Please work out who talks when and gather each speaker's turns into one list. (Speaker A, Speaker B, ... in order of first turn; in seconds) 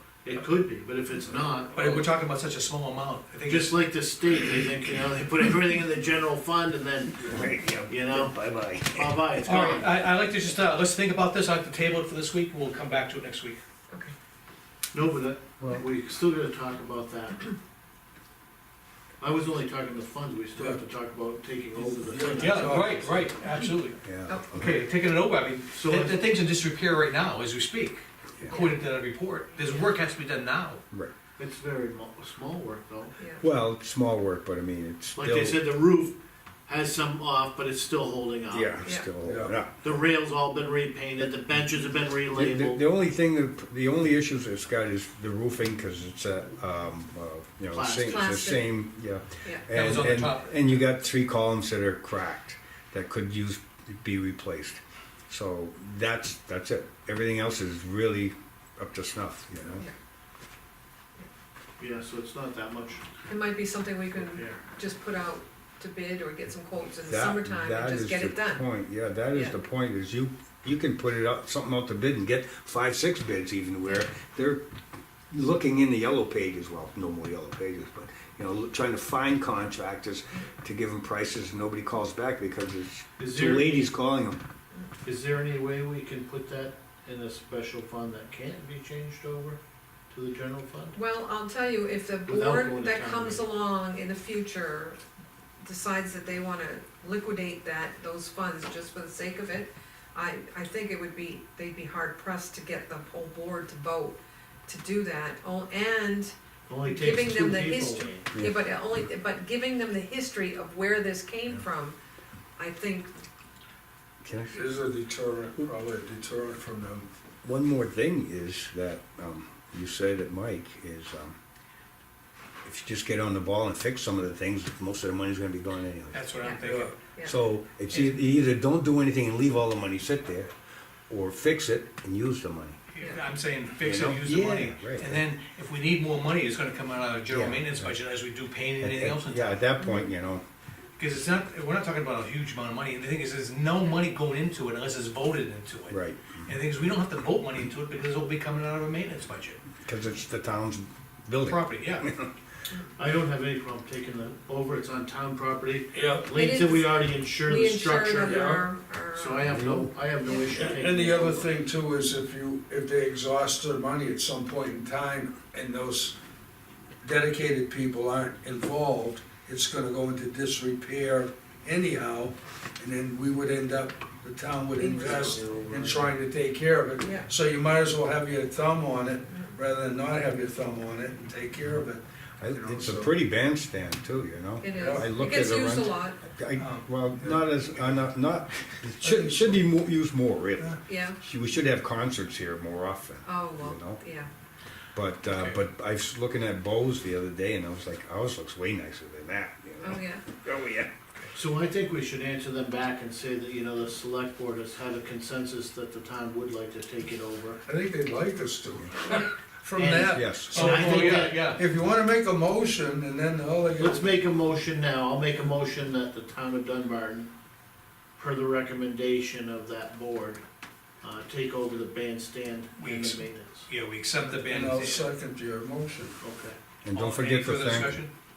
Speaker A: 0.2-2.1, 3.4-10.0, 14.9-17.6, 19.2-23.2, 25.7-26.2, 31.4-33.1, 35.1-38.7, 39.8-42.8, 47.7-48.3, 61.8-63.0, 64.2-64.6, 83.2-83.9, 85.0-89.6, 90.1-91.0, 92.2-93.5, 106.7-108.3, 153.0-158.4, 159.1-161.5, 174.9-176.1, 201.3-207.6, 209.8-211.5, 213.8-217.3, 218.2-220.4, 221.0-223.7, 226.2-226.6
Speaker B: 1.7-3.8, 9.4-13.6, 22.4-24.0, 24.5-30.8, 49.7-50.8, 126.1-126.9, 127.9-128.3, 132.9-139.6, 141.0-149.6, 151.4-152.1, 186.6-186.8, 195.3-195.6, 210.5-211.6, 222.8-225.1, 226.9-228.1
Speaker C: 7.2-9.2, 24.0-24.8, 33.4-35.7, 38.5-39.8, 42.3-59.9, 67.1-74.6, 75.3-84.4, 114.2-114.6, 117.4-121.3, 122.6-126.2, 127.2-130.5, 131.1-132.8, 133.8-135.2, 137.3-137.9, 138.8-140.4, 145.9-146.5, 149.8-152.3, 159.5-159.9, 182.4-194.0, 194.9-200.9, 210.1-210.5, 226.8-228.0
Speaker D: 20.6-20.8, 21.8-23.2, 39.2-39.5, 114.5-117.1, 126.6-127.0, 155.9-156.3, 158.2-158.7, 160.6-166.2, 167.0-183.1, 184.7-185.2, 187.2-188.1, 189.0-189.6, 207.7-214.1, 224.4-226.2
Speaker E: 24.3-24.5, 33.2-33.4, 38.8-39.1, 48.0-48.8, 63.3-68.6, 90.9-95.0, 95.6-106.3, 106.8-112.0, 112.6-113.1, 126.4-127.3, 139.8-140.1, 156.3-159.6, 160.2-160.6, 174.7-175.6, 177.0-177.3, 179.3-179.6, 184.6-186.2, 190.9-191.2, 193.2-194.3, 199.8-200.2